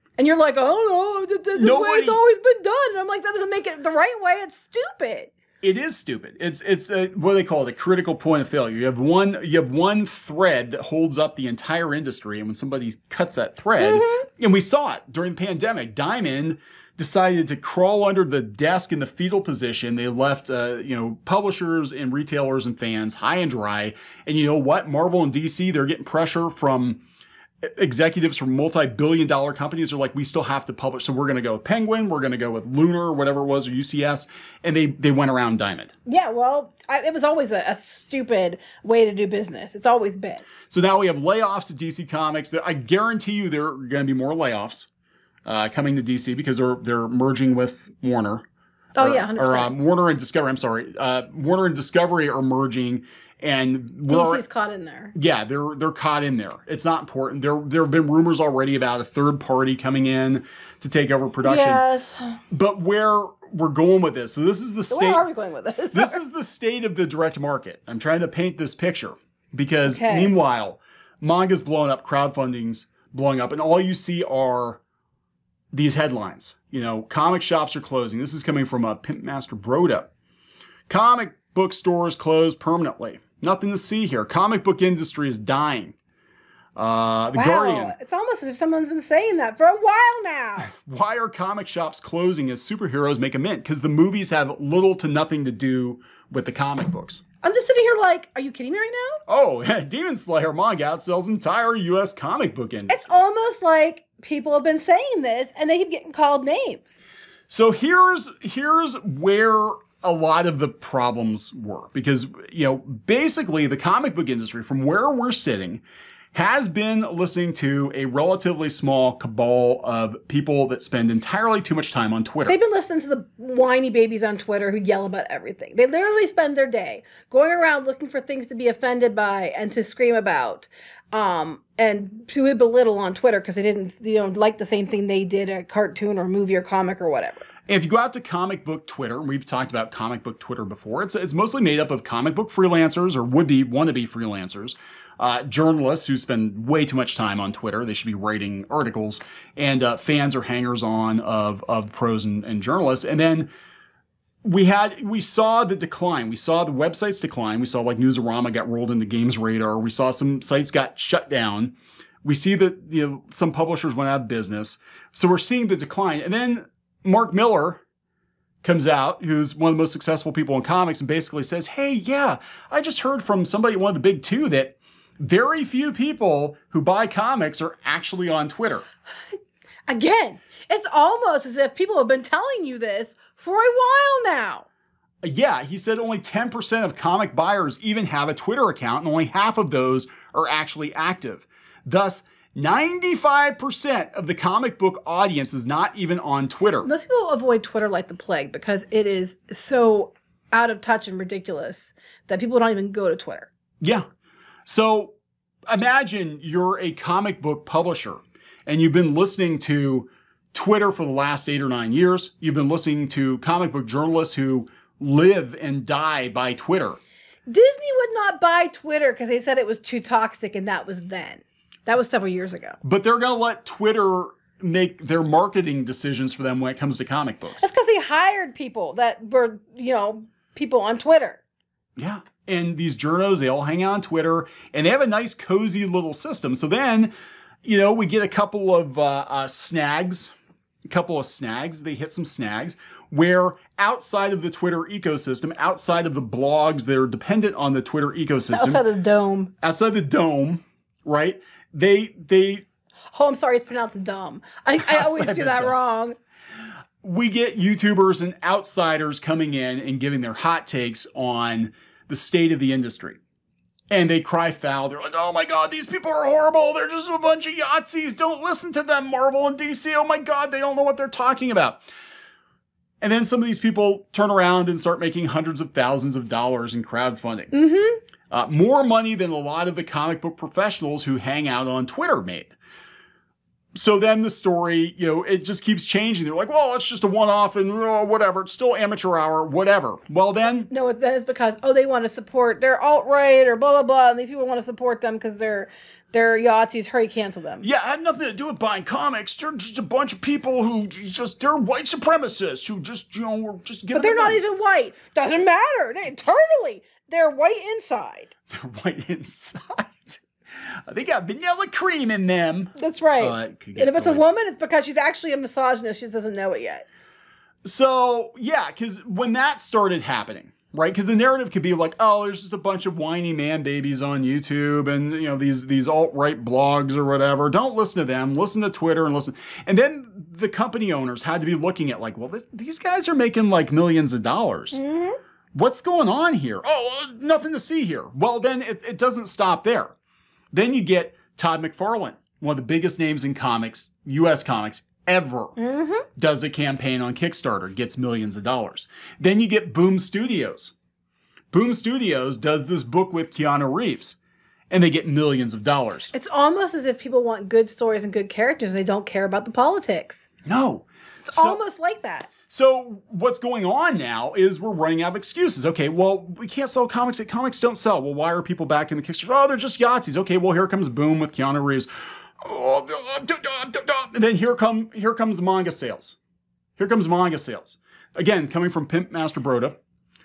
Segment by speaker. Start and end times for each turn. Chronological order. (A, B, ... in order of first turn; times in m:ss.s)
0:00.2-0:05.3 A
0:01.6-0:02.2 B
0:05.6-0:27.0 B
0:13.8-0:14.3 A
0:27.6-0:35.9 B
0:36.1-0:40.5 A
0:40.7-0:44.9 B
0:45.4-0:48.4 B
0:49.0-0:49.7 A
0:49.0-0:54.4 B
0:54.1-0:55.1 A
0:55.1-1:01.8 B
1:01.4-1:02.4 A
1:02.5-1:05.2 B
1:04.9-1:06.2 A
1:05.9-1:14.8 B
1:09.8-1:10.3 A
1:15.7-1:20.1 B
1:20.9-1:26.0 B
1:26.8-1:28.0 B
1:27.4-1:30.7 A
1:30.6-1:37.2 B
1:37.4-1:39.2 A
1:39.3-1:43.2 B
1:42.9-1:47.0 A
1:47.5-2:02.6 B
2:02.5-2:17.5 A
2:17.7-2:33.5 B
2:34.4-2:47.8 B
2:48.6-2:58.9 B
2:59.9-3:04.7 A
3:05.2-3:16.9 B
3:16.8-3:23.5 A
3:24.7-3:25.2 B
3:25.7-3:37.0 B
3:37.5-3:42.8 A
3:42.8-3:47.7 B
3:47.6-3:51.4 A
3:52.0-3:57.1 B
3:57.6-4:00.3 B
4:00.9-4:08.8 B
4:08.5-4:09.5 A
4:09.6-4:12.6 B
4:13.1-4:16.2 A
4:14.8-4:15.8 B
4:17.0-4:23.2 B
4:23.9-4:31.8 B
4:33.0-4:37.6 B
4:37.5-4:38.0 A
4:38.3-4:42.6 B
4:43.8-4:50.7 B
4:50.7-4:57.6 A
4:57.6-5:04.4 B
5:03.9-5:08.3 A
5:08.5-5:14.2 B
5:12.8-5:16.9 A
5:17.6-5:34.8 B
5:34.7-5:35.2 A
5:35.5-5:39.9 B
5:40.5-5:45.6 B
5:45.6-5:46.1 A
5:46.2-5:50.8 B
5:51.5-5:54.2 B
5:54.7-5:56.1 B
5:56.1-6:00.3 A
6:00.4-6:01.6 B
6:01.4-6:02.3 A
6:02.5-6:11.9 B
6:12.4-6:16.2 B
6:16.8-6:19.8 B